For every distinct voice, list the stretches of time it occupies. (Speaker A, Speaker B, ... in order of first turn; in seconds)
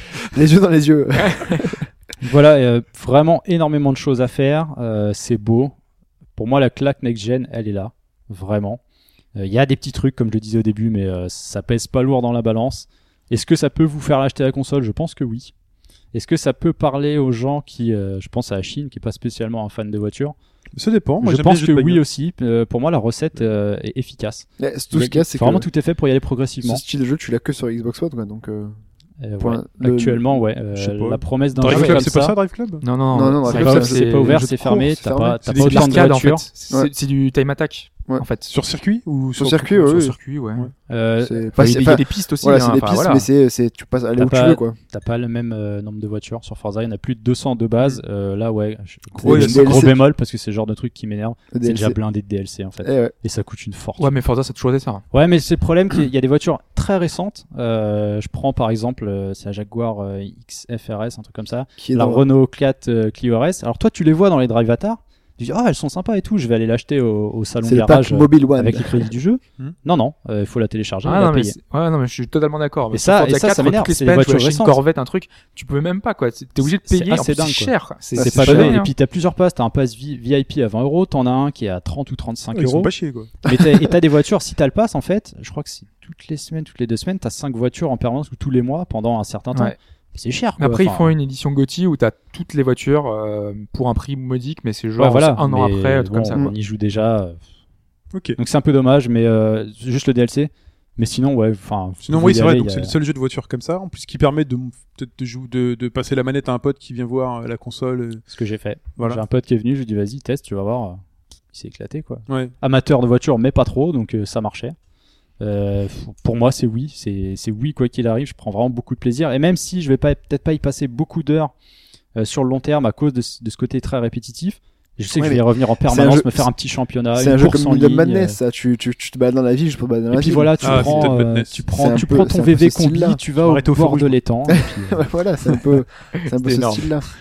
Speaker A: 0.3-1.9, 24.6-25.7, 26.6-28.7, 29.4-30.4, 33.1-36.1, 39.4-40.1, 41.2-44.8, 49.1-50.0, 51.5-52.0, 52.8-53.1, 61.8-62.2, 67.6-69.1, 78.2-78.8, 83.5-83.7, 125.2-126.5, 127.2-131.2, 131.7-133.2, 134.5-137.1
Speaker B: 1.2-1.6, 31.6-32.1, 32.8-34.5, 35.6-38.5, 39.9-40.7, 41.6-43.3, 54.0-55.0, 71.0-78.9, 90.6-96.4, 136.2-137.0
Speaker C: 2.2-5.7, 6.3-8.8, 9.3-15.5, 16.1-20.4, 21.2-26.8, 29.2-32.4, 33.5-36.5, 40.9-42.0, 44.2-54.1, 55.1-71.6, 72.9-74.8, 76.6-82.9, 83.4-91.1, 95.0-97.4, 98.4-102.9, 108.3-111.0, 111.5-114.8, 115.4-121.5, 122.2-128.4, 130.1-135.0
Speaker D: 20.8-22.0, 30.7-32.8, 38.5-40.7, 49.2-49.9, 82.5-83.3, 98.1-98.4, 102.1-108.2, 109.0-109.2, 130.6-131.6, 133.4-134.2